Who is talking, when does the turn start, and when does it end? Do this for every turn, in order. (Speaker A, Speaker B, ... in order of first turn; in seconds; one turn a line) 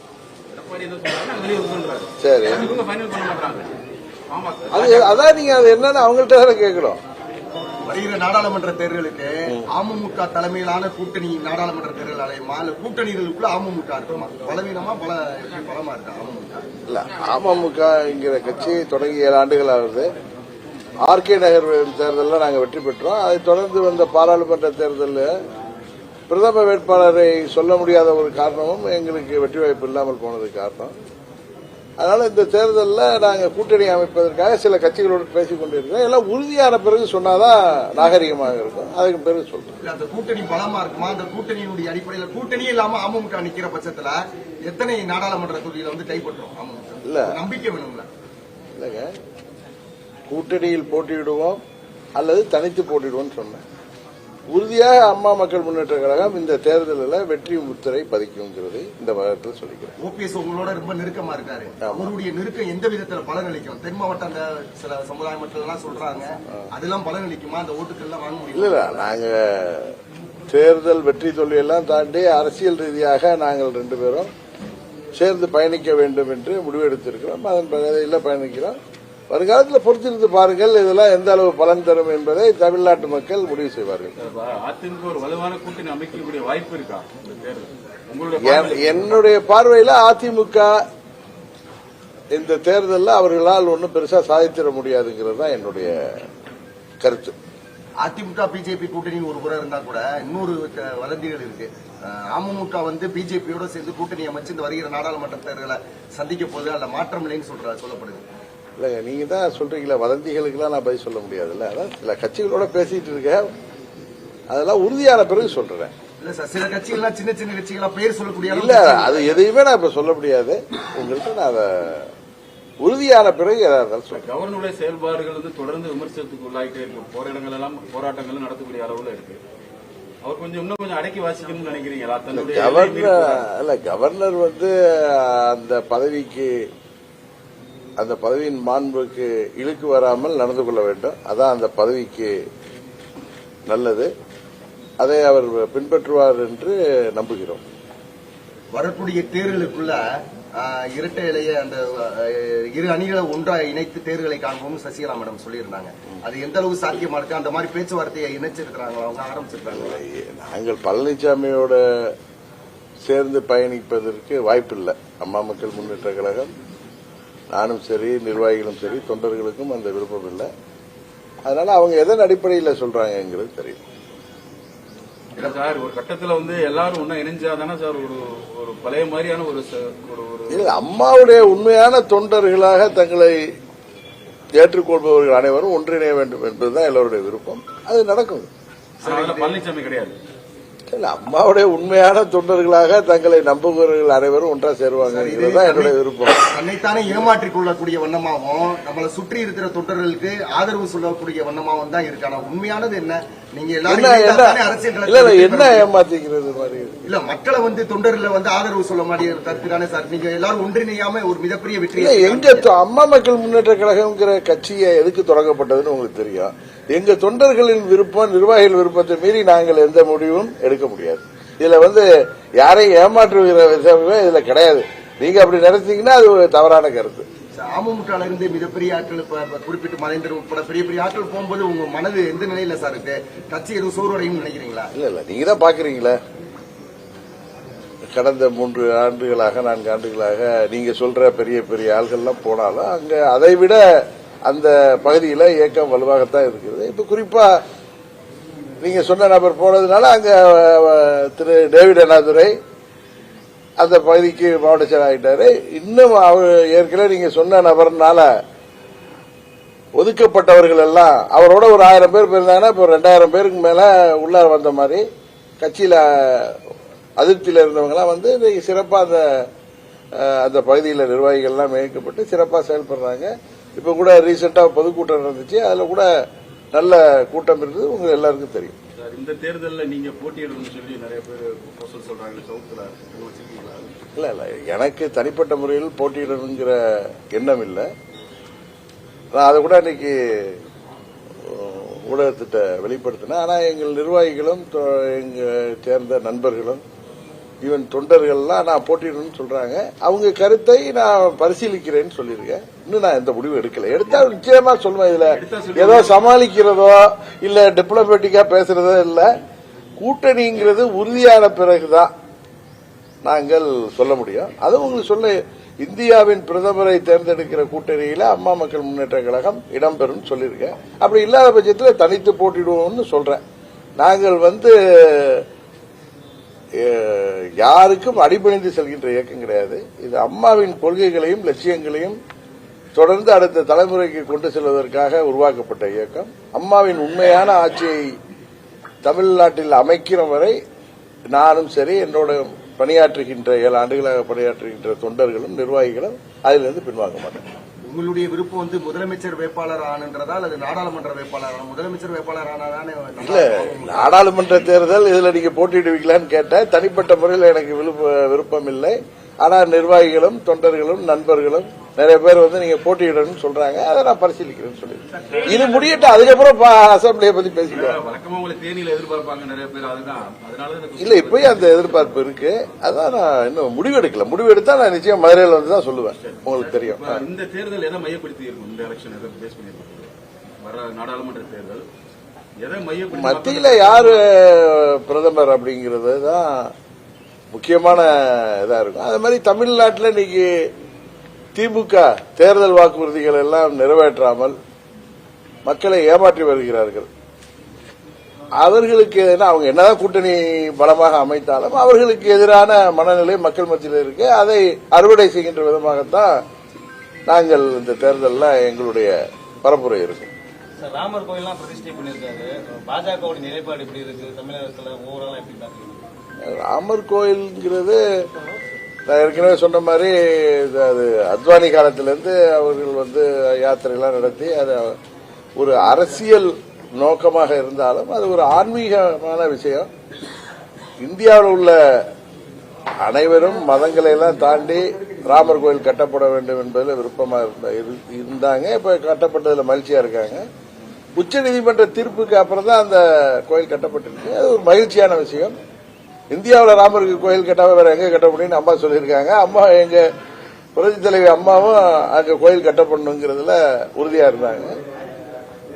Speaker A: 0.5-3.8
Speaker B: 2.2-2.7
Speaker A: 4.3-5.2
Speaker B: 4.7-7.0
Speaker C: 7.8-16.7
Speaker B: 16.9-20.1
Speaker B: 21.0-25.3
Speaker B: 26.3-30.9
Speaker B: 32.0-39.8
Speaker C: 39.8-48.1
Speaker B: 47.0-47.4
Speaker B: 48.8-49.1
Speaker B: 50.3-51.6
Speaker B: 52.2-53.6
Speaker B: 54.5-60.0
Speaker C: 60.0-69.1
Speaker B: 61.8-62.1
Speaker B: 68.5-70.0
Speaker B: 70.5-74.3
Speaker B: 75.2-78.8
Speaker B: 79.3-84.2
Speaker A: 84.2-89.3
Speaker B: 88.4-90.8
Speaker B: 92.3-96.3
Speaker B: 97.0-97.3
Speaker C: 98.0-108.2
Speaker B: 108.8-113.5
Speaker B: 114.5-115.9
Speaker C: 116.2-119.4
Speaker B: 118.5-122.1
Speaker B: 122.8-124.2
Speaker A: 124.1-129.4
Speaker A: 130.2-133.5
Speaker B: 132.3-136.7
Speaker B: 138.0-142.4
Speaker B: 143.7-144.1
Speaker B: 145.0-147.6
Speaker C: 148.7-150.0
Speaker C: 150.5-160.0
Speaker B: 159.7-162.1
Speaker B: 163.0-166.5
Speaker B: 167.5-170.5
Speaker B: 171.4-173.8
Speaker A: 175.3-180.7
Speaker B: 180.5-183.4
Speaker B: 184.6-188.5
Speaker C: 189.0-189.6
Speaker A: 189.0-190.2
Speaker B: 190.9-196.4
Speaker C: 195.0-195.9
Speaker C: 196.5-205.9
Speaker B: 203.8-207.0
Speaker C: 207.1-212.7
Speaker B: 211.9-222.1
Speaker B: 222.6-227.2
Speaker C: 227.5-234.9
Speaker B: 234.9-236.2
Speaker B: 238.1-247.5
Speaker B: 248.8-252.5
Speaker B: 253.8-258.3
Speaker B: 259.9-265.0
Speaker B: 265.6-266.6
Speaker B: 267.2-269.5
Speaker B: 270.1-276.1
Speaker B: 276.7-278.8
Speaker A: 279.0-283.9
Speaker B: 284.1-287.9
Speaker B: 289.3-290.6
Speaker B: 291.4-296.8
Speaker B: 297.6-309.3
Speaker A: 305.2-306.2
Speaker B: 310.0-312.1
Speaker B: 313.2-323.4
Speaker B: 324.0-325.4
Speaker B: 326.8-332.2
Speaker B: 332.9-338.1
Speaker B: 339.0-340.6
Speaker B: 341.3-347.4
Speaker C: 347.9-354.2
Speaker B: 353.2-368.0
Speaker A: 367.7-372.2
Speaker B: 371.0-377.2
Speaker A: 376.1-381.8
Speaker A: 382.6-384.3
Speaker B: 383.1-386.7
Speaker B: 387.5-390.7
Speaker B: 391.5-394.6
Speaker B: 395.6-397.1
Speaker B: 398.6-406.4
Speaker B: 407.3-410.3
Speaker D: 410.8-416.1
Speaker B: 416.4-418.0
Speaker B: 419.1-424.9
Speaker B: 425.6-429.9
Speaker B: 431.0-432.0
Speaker B: 433.0-440.4
Speaker B: 441.1-445.6
Speaker B: 446.3-450.1
Speaker B: 450.8-454.8